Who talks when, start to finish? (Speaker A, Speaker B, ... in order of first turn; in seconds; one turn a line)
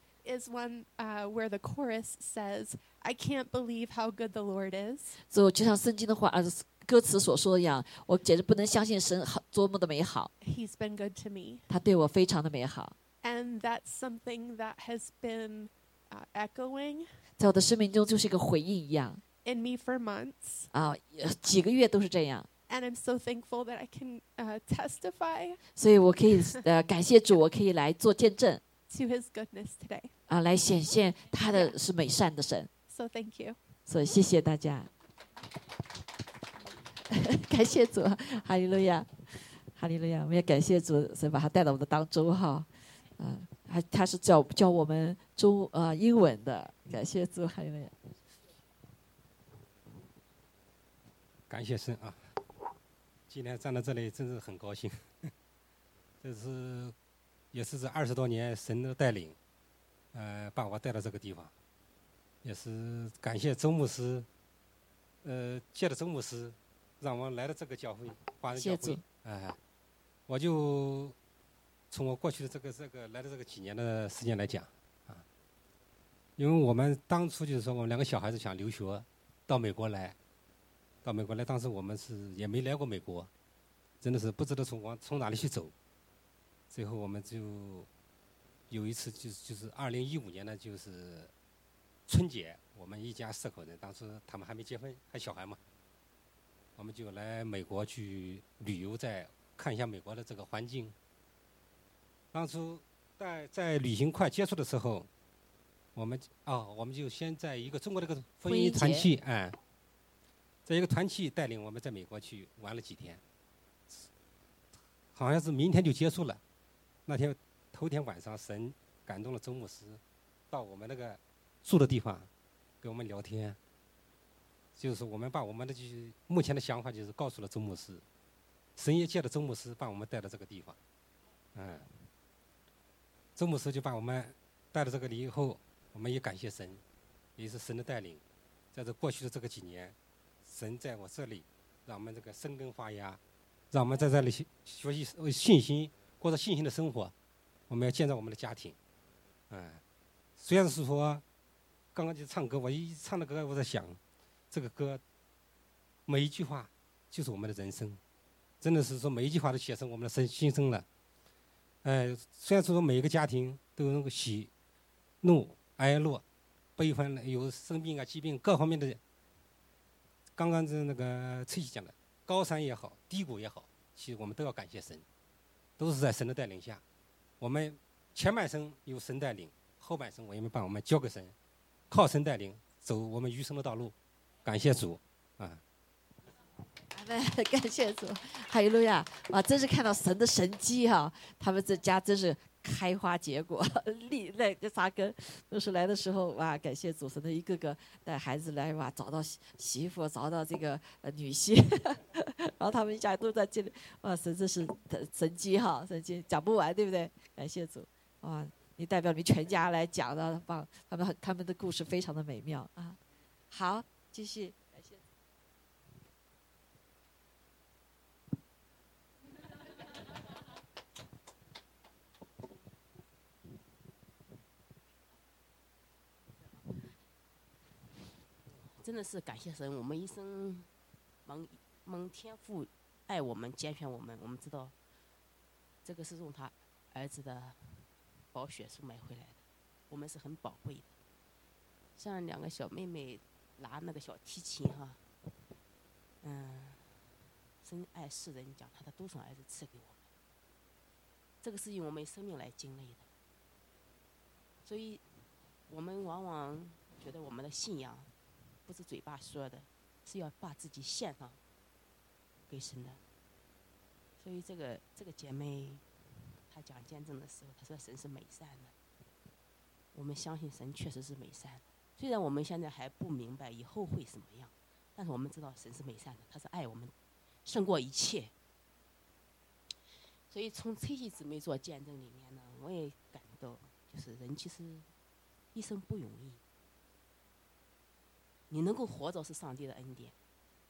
Speaker A: 0.2-5.2
Speaker B: 5.3-10.3
Speaker A: 10.4-11.7
Speaker B: 11.7-12.9
Speaker A: 13.2-17.1
Speaker B: 17.4-19.2
Speaker A: 19.4-20.7
Speaker B: 20.7-22.5
Speaker A: 22.7-25.6
Speaker B: 25.8-28.6
Speaker A: 28.9-30.1
Speaker B: 30.3-32.7
Speaker A: 31.4-31.7
Speaker A: 32.9-33.6
Speaker B: 33.9-34.9
Speaker B: 37.1-47.9
Speaker C: 51.5-52.2
Speaker C: 53.3-55.3
Speaker C: 56.2-56.9
Speaker C: 57.5-59.4
Speaker C: 60.1-61.5
Speaker C: 62.4-64.3
Speaker C: 65.2-69.6
Speaker B: 68.5-69.0
Speaker C: 70.3-71.2
Speaker C: 71.9-75.2
Speaker C: 76.4-80.2
Speaker C: 81.0-83.3
Speaker C: 84.0-85.7
Speaker C: 86.7-87.9
Speaker C: 88.7-91.3
Speaker C: 92.1-95.6
Speaker C: 96.8-100.9
Speaker C: 102.3-105.1
Speaker C: 105.9-109.6
Speaker B: 108.4-109.1
Speaker C: 110.7-113.2
Speaker C: 115.1-116.4
Speaker C: 117.1-122.3
Speaker C: 122.8-123.6
Speaker C: 124.8-128.0
Speaker C: 128.8-130.8
Speaker C: 131.5-131.9
Speaker C: 133.3-136.8
Speaker C: 137.4-138.2
Speaker C: 138.7-143.2
Speaker C: 143.7-147.1
Speaker C: 147.7-148.8
Speaker C: 149.5-149.8
Speaker C: 150.4-151.2
Speaker C: 151.9-154.0
Speaker C: 154.5-155.0
Speaker C: 156.1-158.0
Speaker C: 158.6-160.8
Speaker C: 161.8-164.5
Speaker C: 165.2-166.2
Speaker C: 166.8-169.0
Speaker C: 170.3-175.0
Speaker C: 175.8-176.8
Speaker C: 177.4-181.3
Speaker C: 181.9-185.6
Speaker B: 186.9-213.0
Speaker B: 213.5-214.9
Speaker D: 228.5-230.7
Speaker D: 231.2-234.7
Speaker D: 235.8-240.9
Speaker D: 241.9-245.0
Speaker D: 246.2-247.0
Speaker D: 247.6-250.0
Speaker D: 251.4-253.1
Speaker D: 254.6-255.1
Speaker D: 255.7-258.1
Speaker D: 258.6-261.4
Speaker D: 262.5-263.0
Speaker D: 264.2-265.8
Speaker D: 266.5-268.7
Speaker D: 269.9-276.9
Speaker D: 277.4-278.3
Speaker D: 280.3-284.9
Speaker D: 285.5-286.4
Speaker D: 288.5-290.1